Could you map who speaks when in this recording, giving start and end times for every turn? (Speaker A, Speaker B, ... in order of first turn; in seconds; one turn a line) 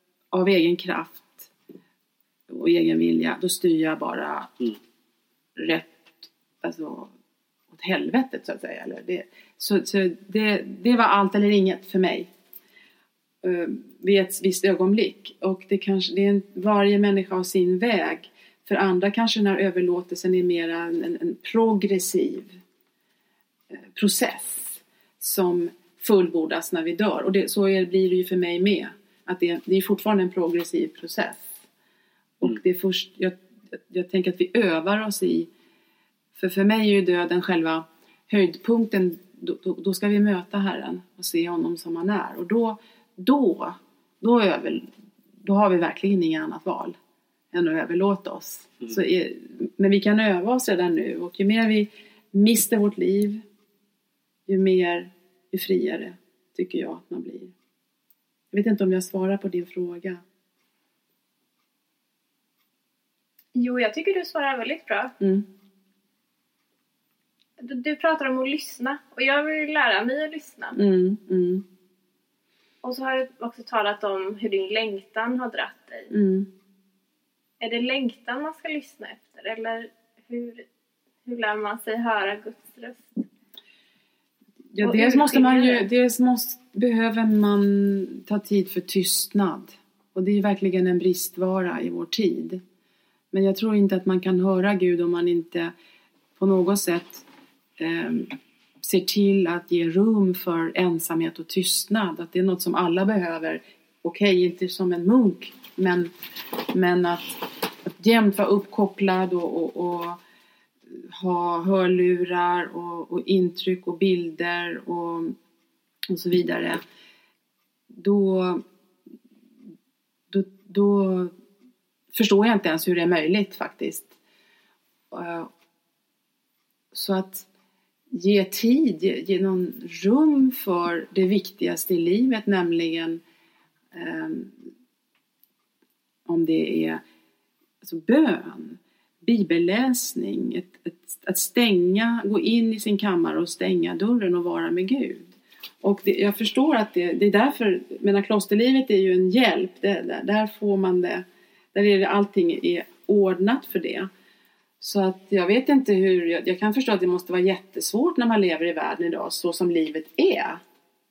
Speaker A: 0.3-1.5
Speaker A: 2.5-4.7
Speaker A: 5.6-7.1
Speaker A: 7.7-12.3
Speaker A: 13.4-22.6
Speaker A: 23.7-31.5
Speaker A: 32.4-35.5
Speaker A: 36.4-44.9
Speaker A: 45.4-47.0
Speaker A: 47.5-53.4
Speaker A: 54.5-57.5
Speaker A: 58.5-60.2
Speaker B: 63.5-65.1
Speaker B: 67.6-70.8
Speaker A: 70.8-71.6
Speaker B: 72.8-76.1
Speaker A: 76.1-76.5
Speaker B: 77.6-80.7
Speaker B: 81.2-83.2
Speaker A: 84.7-92.6
Speaker B: 84.8-85.8
Speaker A: 93.3-95.7
Speaker A: 96.4-97.2
Speaker A: 97.8-106.1
Speaker A: 106.7-110.2
Speaker A: 111.1-115.3
Speaker A: 116.1-116.8
Speaker A: 117.9-118.6
Speaker A: 120.3-121.3
Speaker A: 122.1-124.1
Speaker A: 125.1-125.5
Speaker A: 126.9-127.5
Speaker A: 128.1-133.2
Speaker A: 133.9-134.5
Speaker A: 136.3-137.0
Speaker A: 137.8-154.1
Speaker A: 154.8-160.6